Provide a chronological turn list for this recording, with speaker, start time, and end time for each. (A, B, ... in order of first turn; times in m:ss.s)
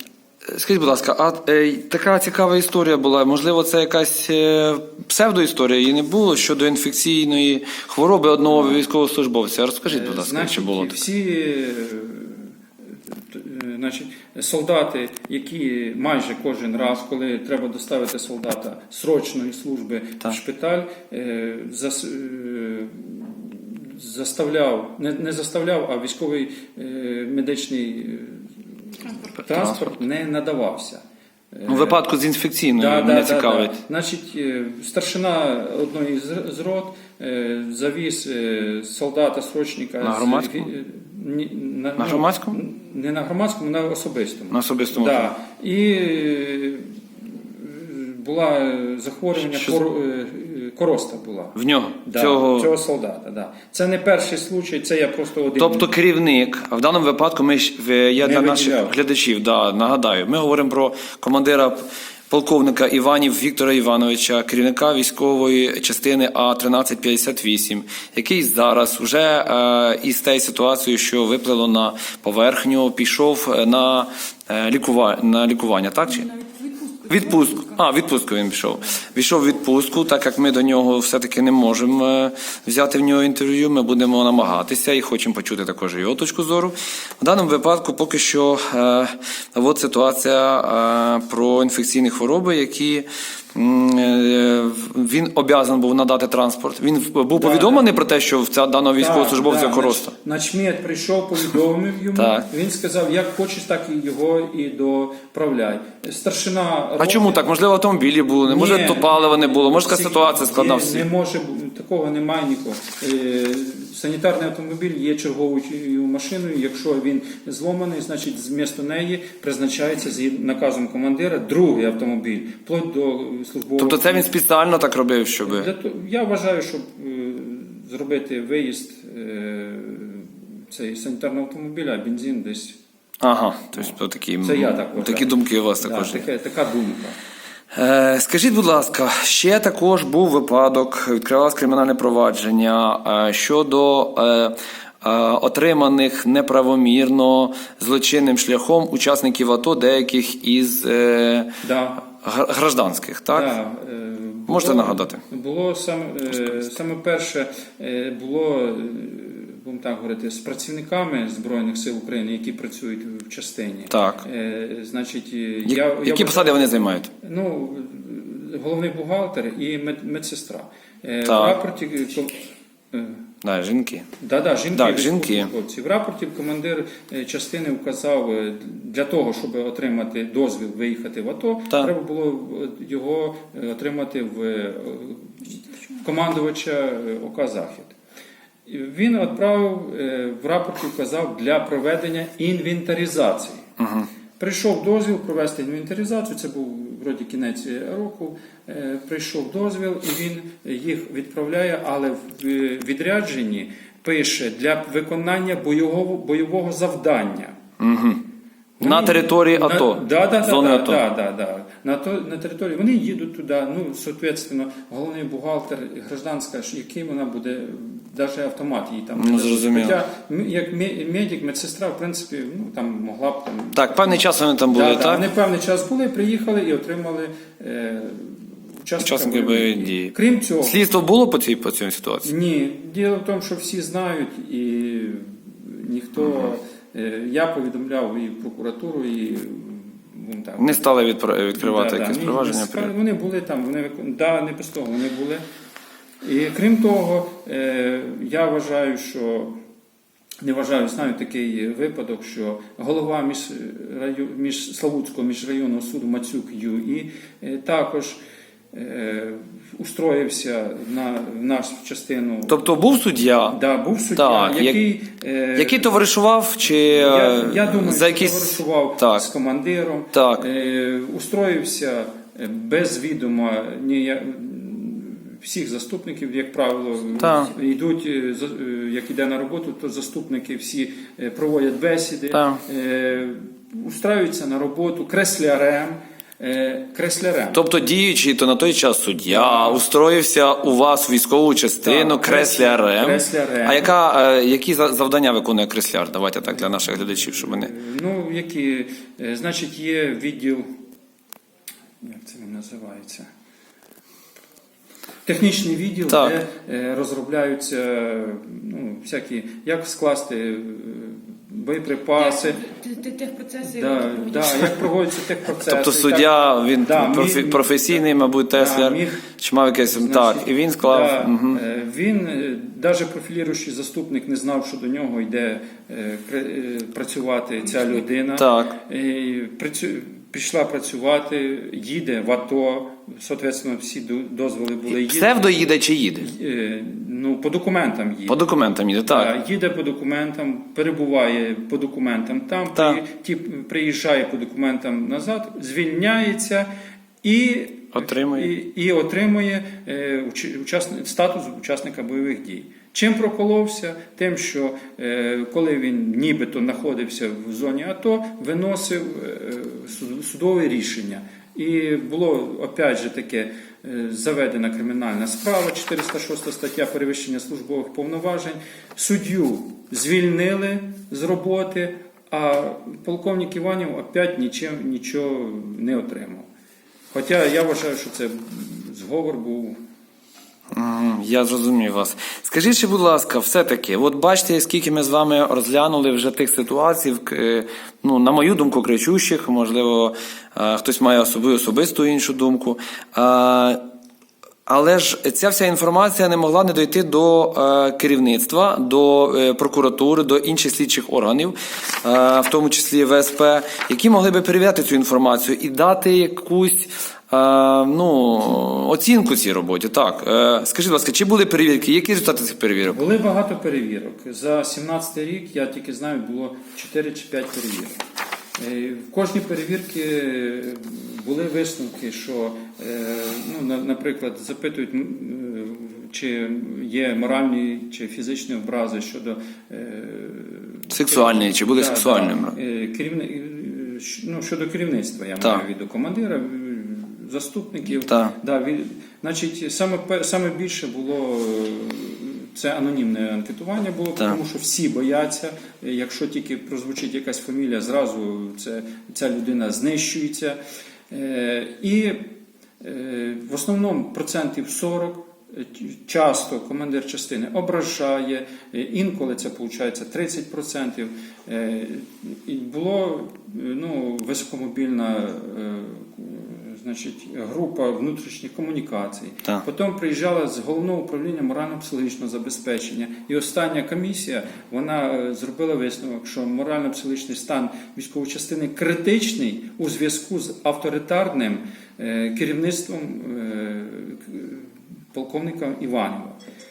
0:00.5-0:11.0 A
0:08.5-0:08.8 B
0:09.9-0:12.5 B
0:13.1-0:28.5 B
0:29.4-0:31.0 B
0:29.5-0:29.9 A
0:31.5-0:32.0 B
0:31.7-0:33.8 A
0:32.7-0:55.9 B
0:40.0-0:40.7 A
0:42.0-0:42.6 A
0:44.5-0:45.3 A
0:49.5-0:49.8 A
0:51.6-0:52.7 A
0:55.6-1:16.3 A
0:58.2-0:58.9 B
1:16.1-1:17.9 C
1:17.1-1:40.1 A
1:37.4-1:37.9 B
1:39.0-1:47.4 B
1:42.2-1:42.5 A
1:47.0-1:51.0 A
1:48.5-2:04.3 B
2:03.8-2:05.7 A
2:05.4-2:12.8 B
2:13.2-2:16.3 A
2:14.4-2:17.2 B
2:17.7-2:33.5 A
2:31.6-2:32.0 B
2:33.3-2:52.4 B
2:34.5-2:35.2 A
2:43.9-2:44.2 A
2:45.7-2:47.1 A
2:51.3-2:51.6 A
2:52.9-2:53.2 B
2:53.4-2:54.1 A
2:54.2-3:08.0 B
2:54.7-2:55.5 A
3:08.7-3:13.7 B
3:13.8-3:14.1 A
3:14.4-3:27.6 B
3:27.8-3:28.2 A
3:28.8-3:50.8 B
3:28.8-3:31.0 A
3:39.2-3:40.0 A
3:43.8-3:45.3 A
3:49.0-3:52.3 A
3:52.2-4:00.9 B
4:00.6-4:02.9 A
4:01.6-4:05.4 B
4:06.2-4:09.6 B
4:10.4-4:18.2 B
4:18.7-4:22.6 B
4:22.5-4:23.6 A
4:23.5-4:25.9 B
4:24.2-4:24.8 A
4:25.6-4:29.2 A
4:26.9-4:47.6 B
4:30.1-4:30.4 A
4:37.2-4:37.5 A
4:42.3-4:42.6 A
4:47.5-4:57.7 A
4:49.3-4:49.8 B
4:51.8-4:53.9 B
4:56.6-5:00.7 B
5:02.0-5:03.3 B
5:05.2-5:12.6 B
5:06.1-5:06.3 A
5:12.1-5:14.9 C
5:13.6-5:19.3 B
5:15.6-5:21.6 A
5:19.8-5:38.4 B
5:28.4-5:28.8 A
5:34.9-5:36.3 A
5:38.3-5:39.3 A
5:39.0-5:46.7 B
5:42.8-5:43.0 A
5:47.2-6:16.5 B
5:48.0-5:48.5 A
6:17.1-6:19.8 B
6:20.7-6:33.8 A
6:34.7-6:53.0 A
6:52.9-6:58.0 B
6:58.6-7:30.6 B
7:10.9-7:12.6 A
7:18.0-7:18.4 A
7:31.1-8:06.4 B